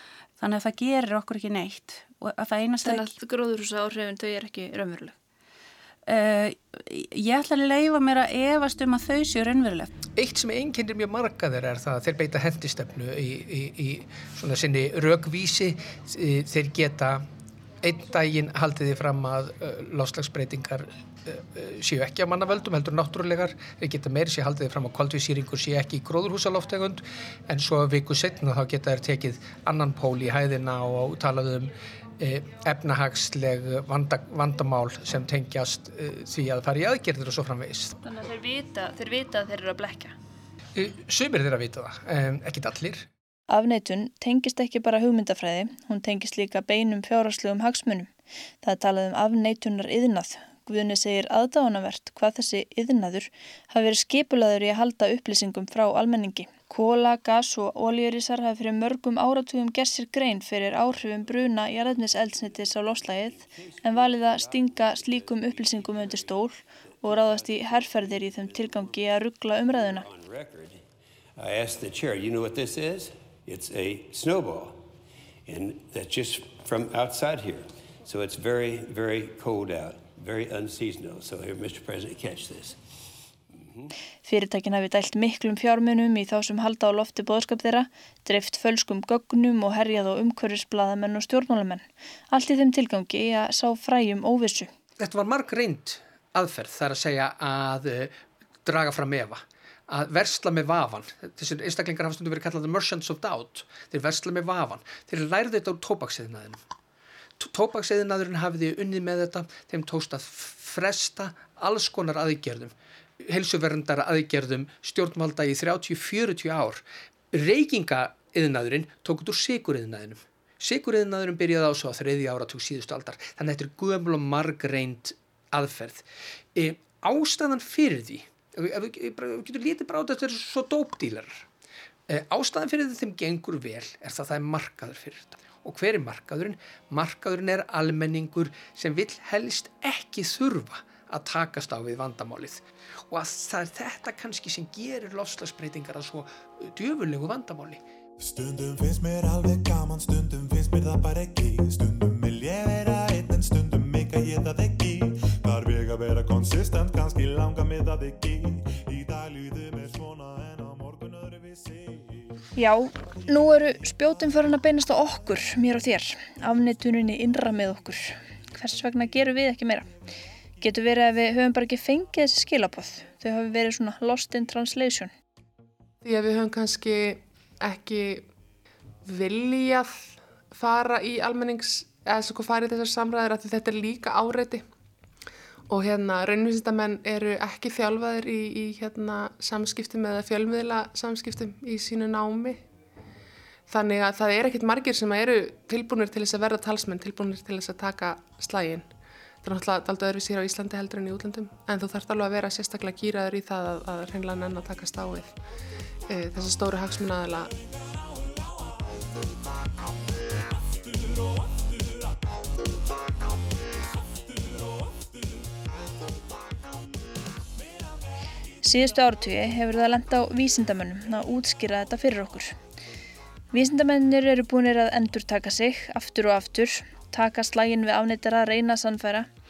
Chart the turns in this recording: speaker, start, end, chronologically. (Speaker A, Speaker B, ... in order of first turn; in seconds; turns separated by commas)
Speaker A: 0.4-3.1, Speaker B: 2.8-5.2, Speaker A: 6.1-9.9, Speaker C: 10.2-17.2, Speaker C: 17.8-38.0, Speaker B: 38.0-40.1, Speaker C: 40.8-43.1, Speaker B: 43.5-48.1, Speaker B: 48.6-70.1, Speaker D: 61.4-70.8, Speaker D: 71.4-74.8, Speaker D: 75.5-82.8, Speaker B: 84.3-94.7, Speaker C: 95.0-106.6, Speaker C: 107.4-126.0, Speaker C: 126.6-131.5, Speaker C: 132.1-147.8, Speaker E: 148.2-162.2, Speaker B: 162.6-169.9, Speaker B: 170.6-175.1, Speaker F: 176.0-178.3, Speaker F: 179.1-184.7, Speaker F: 185.7-192.6, Speaker F: 193.7-205.4, Speaker F: 206.1-207.5, Speaker B: 218.6-222.6, Speaker B: 223.5-229.3